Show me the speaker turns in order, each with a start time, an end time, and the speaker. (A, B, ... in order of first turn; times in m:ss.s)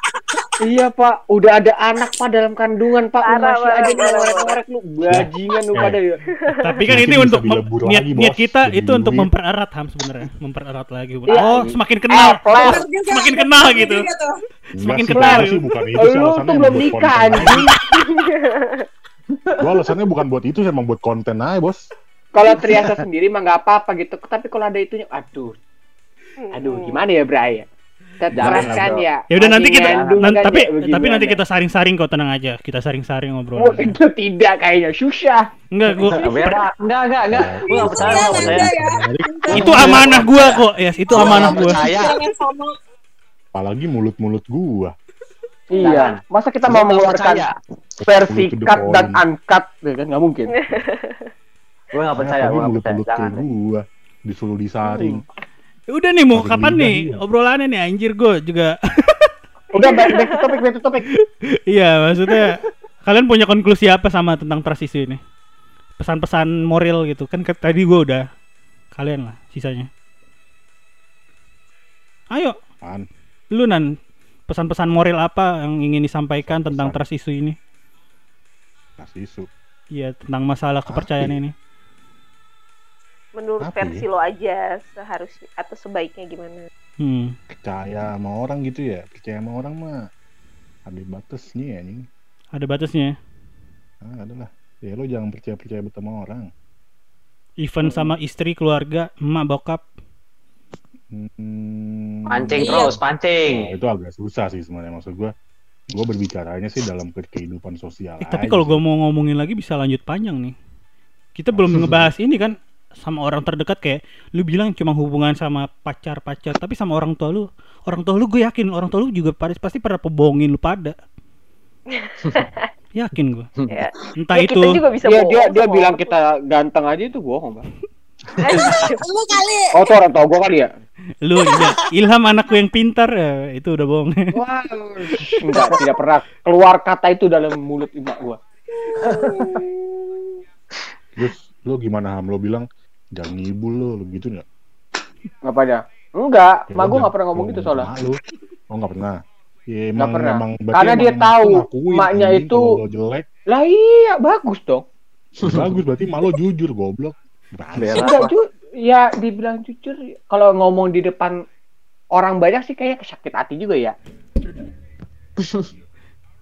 0:00.6-0:06.2 A
0:03.2-0:04.6 B
0:03.9-0:04.3 C
0:05.1-0:06.0 D
0:06.6-0:14.1 E
0:06.9-0:09.3 D
0:11.3-0:12.8 A
0:11.3-0:11.7 F
0:12.6-0:14.3 C
0:14.8-0:17.7 D
0:14.8-0:15.6 E
0:16.0-0:17.8 A
0:17.9-0:18.9 B
0:19.3-0:19.9 F
0:19.6-0:21.8 D
0:22.3-0:25.5 A
0:22.6-0:22.9 F
0:26.4-0:27.0 B
0:26.5-0:27.7 A
0:28.2-0:31.4 A
0:28.3-0:29.1 F
0:28.4-0:28.8 D
0:29.3-0:34.0 E
0:29.9-0:30.4 F
0:33.6-0:35.4 A
0:35.7-0:36.5 E
0:35.9-0:38.7 F
0:37.3-0:39.2 D
0:37.7-0:40.1 C
0:39.5-0:40.6 F
0:39.5-0:41.8 E
0:41.1-0:42.2 F
0:41.1-0:42.7 C
0:43.5-0:44.9 D
0:45.7-0:47.5 A
0:45.8-0:47.5 F
0:48.0-0:50.5 A
0:48.2-0:49.2 D
0:50.6-0:51.3 B
0:51.9-0:53.4 F
0:52.2-0:55.2 D
0:54.8-0:55.2 A
0:55.9-0:59.3 E
0:56.3-0:57.2 D
0:59.7-1:01.0 A
1:00.0-1:00.4 B
1:01.7-1:05.2 E
1:06.0-1:08.2 E
1:08.9-1:09.9 E
1:13.5-1:13.9 E
1:14.5-1:17.6 E
1:16.4-1:17.0 D
1:19.0-1:19.5 D
1:19.9-1:21.5 E
1:20.9-1:21.4 D
1:23.4-1:26.7 B
1:23.6-1:24.0 D
1:27.0-1:27.4 E
1:27.6-1:29.9 D
1:30.9-1:32.0 D
1:32.6-1:33.1 E
1:34.0-1:36.5 D
1:37.6-1:39.8 E
1:41.1-1:43.0 D
1:42.3-1:43.7 F
1:42.6-1:43.0 C
1:43.5-1:45.3 D
1:46.0-1:48.8 D
1:48.2-1:50.5 E
1:51.4-2:01.0 E
1:51.5-1:52.1 D
2:01.9-2:02.7 B
2:03.0-2:03.5 E
2:03.6-2:03.9 F
2:03.7-2:06.1 B
2:04.2-2:04.8 E
2:05.0-2:07.7 A
2:08.4-2:09.0 B
2:08.5-2:09.0 F
2:08.6-2:09.9 C
2:09.8-2:10.7 A
2:11.2-2:14.3 E
2:11.6-2:11.8 C
2:14.3-2:18.4 A
2:19.0-2:19.6 F
2:19.4-2:19.6 C
2:21.2-2:24.4 D
2:25.4-2:27.9 A
2:26.7-2:29.2 D
2:29.7-2:33.3 D
2:30.0-2:32.7 A
2:33.5-2:34.8 A
2:35.4-2:35.8 F
2:35.4-2:38.3 D
2:37.8-2:38.4 F
2:37.9-2:41.4 A
2:42.1-2:44.0 A
2:45.4-2:45.7 F